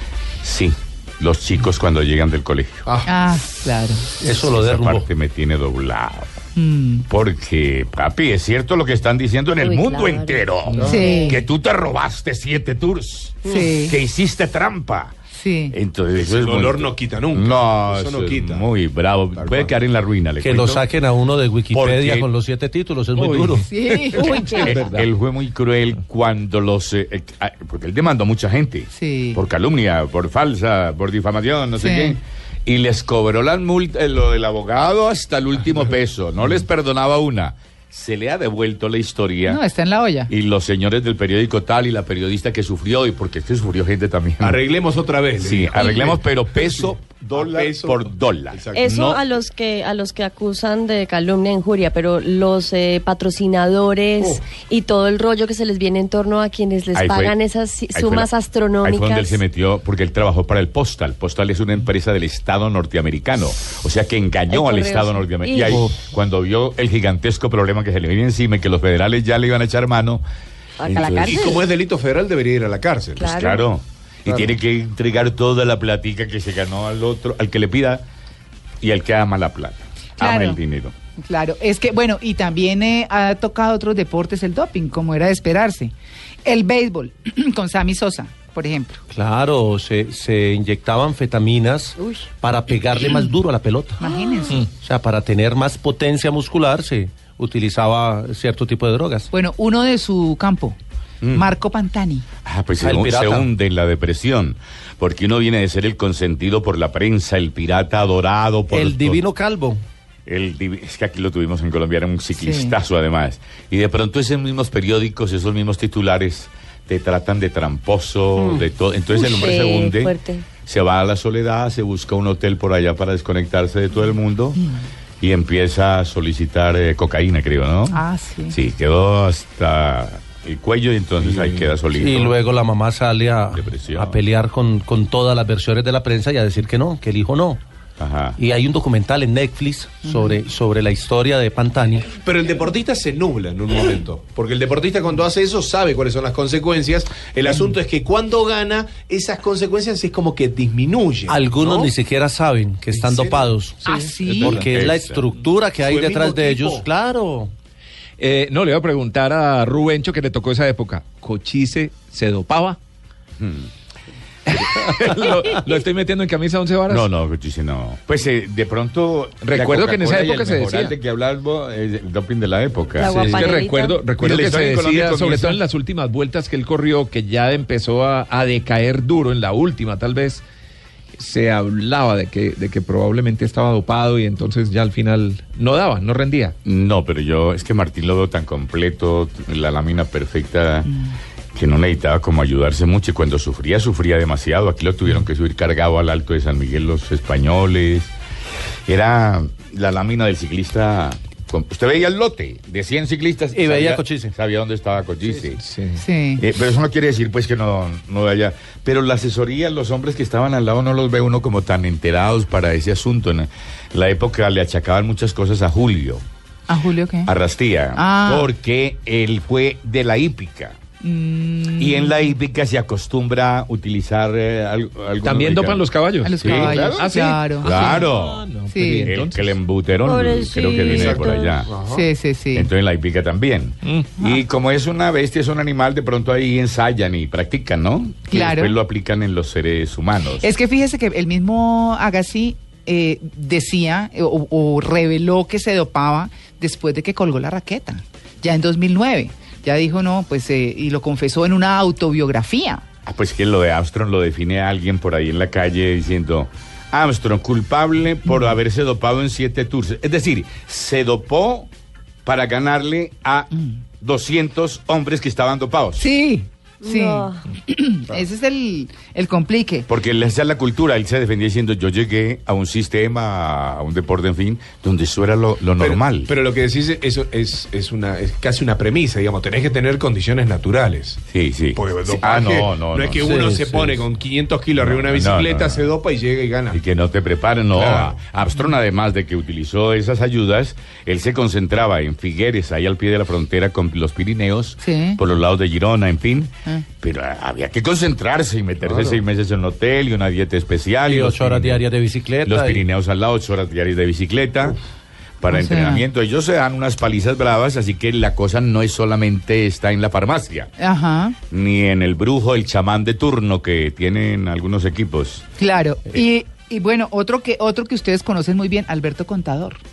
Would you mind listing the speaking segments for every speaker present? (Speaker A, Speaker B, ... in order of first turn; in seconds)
Speaker A: 0.4-2.9, 4.2-6.3, 7.1-15.2, 15.7-20.8, 21.7-22.3, 24.6-39.6, 40.3-44.6, 45.4-49.2, 56.9-57.4, 57.9-58.3, 58.8-70.2, 70.8-71.5, 73.2-78.0, 78.8-80.9, 101.2-101.5, 102.4-109.2, 110.2-120.1, 120.6-124.7, 125.2-132.4, 133.5-134.2, 138.0-138.4, 154.3-155.3, 163.4-163.7, 164.5-164.9, 166.9-173.4, 174.2-175.6, 186.6-190.9, 191.5-198.1, 198.9-205.6, 206.3-216.2, 217.2-220.8, 221.7-228.5, 229.0-231.7, 232.5-240.5, 253.1-261.7, 262.2-266.1, 269.9-276.3, 281.3-283.4, 284.8-285.9, 286.7-301.9, 302.4-304.8, 305.4-310.7, 311.5-315.4
Speaker B: 2.9-3.1, 10.7-11.2, 16.1-18.7, 19.3-19.7, 44.4-49.0, 71.2-73.3, 74.3-74.5, 142.2-151.9, 152.9-153.9, 155.8-156.9, 230.8-232.1, 275.8-281.2, 281.7-286.8, 287.7-288.2
Speaker C: 3.0-4.1, 6.5-7.1, 10.8-11.4, 13.4-14.0, 15.3-15.8, 23.7-24.8, 28.9-29.4, 31.8-32.2, 39.5-40.3, 80.2-80.6, 81.2-85.9, 86.4-89.0, 94.0-94.7, 99.3-100.8, 101.3-102.2, 112.4-112.7, 124.6-124.8, 127.9-128.6, 140.0-140.4, 153.8-154.6, 190.9-191.1, 206.0-206.4, 216.7-217.3, 217.9-218.5, 221.0-222.3, 226.2-228.1, 228.7-229.1, 231.9-232.7, 238.3-238.7, 240.4-252.8, 266.0-269.9, 294.8-295.2, 305.5-306.0, 310.8-311.4, 315.6-319.8
Speaker D: 4.2-5.1, 20.4-23.7, 89.1-94.0, 94.6-99.3, 102.8-103.5, 108.7-109.8, 131.3-137.6, 138.4-142.1, 151.3-157.5, 203.5-204.3, 283.2-283.8, 301.0-302.8
Speaker E: 9.6-11.3, 24.2-24.7, 45.8-46.1, 48.7-59.4, 64.5-65.9, 70.8-71.6, 73.2-73.7, 94.0-94.3, 119.2-120.4, 173.0-174.0, 230.0-231.6, 266.8-267.4
Speaker F: 23.1-25.1, 158.2-162.8, 164.5-167.1, 169.4-170.9, 173.1-180.4, 181.2-186.5, 205.6-206.0, 225.2-229.5, 233.8-234.1